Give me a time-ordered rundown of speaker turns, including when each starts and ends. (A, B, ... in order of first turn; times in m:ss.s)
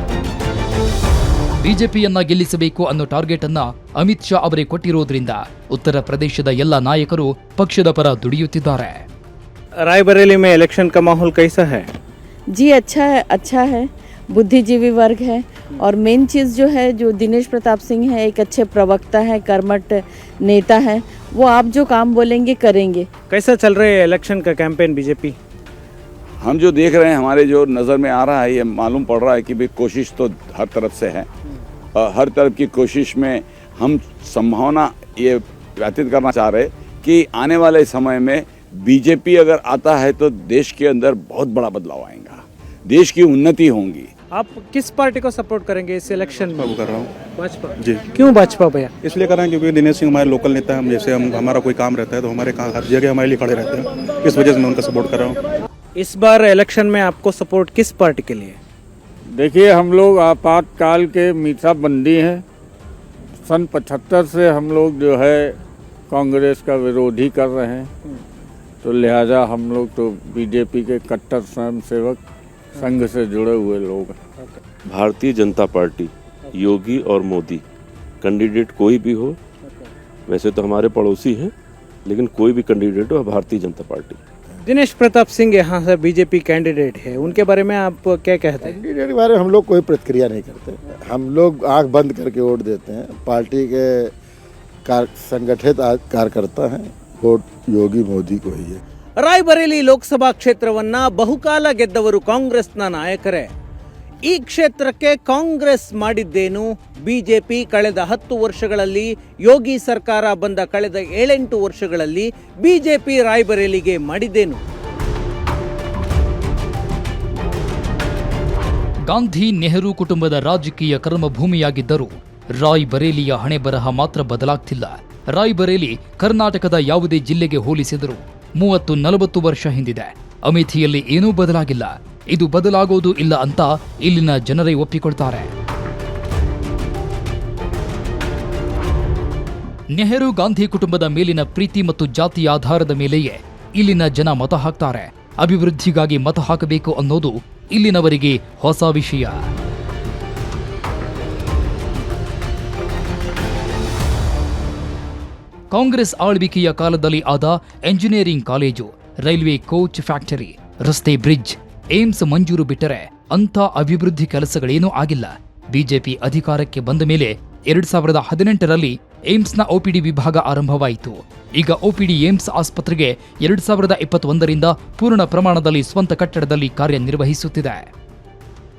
0:01.6-0:09.0 A
0:09.8-0:11.8 B
0:12.5-0:23.1 C
0:23.3-0:25.4 B
0:26.4-0:31.3 D
0:32.0-0:44.1 D
0:44.3-0:46.7 B
0:46.6-0:47.1 E
0:47.4-0:48.9 B
0:49.0-0:55.4 E
0:56.0-0:58.6 B
0:59.3-1:02.4 F
1:03.4-1:05.5 F
1:06.1-1:07.9 F
1:08.8-1:12.2 F
1:12.8-1:14.2 F
1:14.9-1:17.6 G
1:18.2-1:19.4 G
1:20.3-1:21.5 G
1:22.0-1:24.2 G
1:24.6-1:28.7 B
1:28.6-1:34.1 H
1:34.8-1:38.8 H
1:39.2-1:43.5 B
1:44.2-1:54.6 B
1:59.1-2:15.5 A
2:19.9-2:29.4 A
2:35.7-2:57.9 A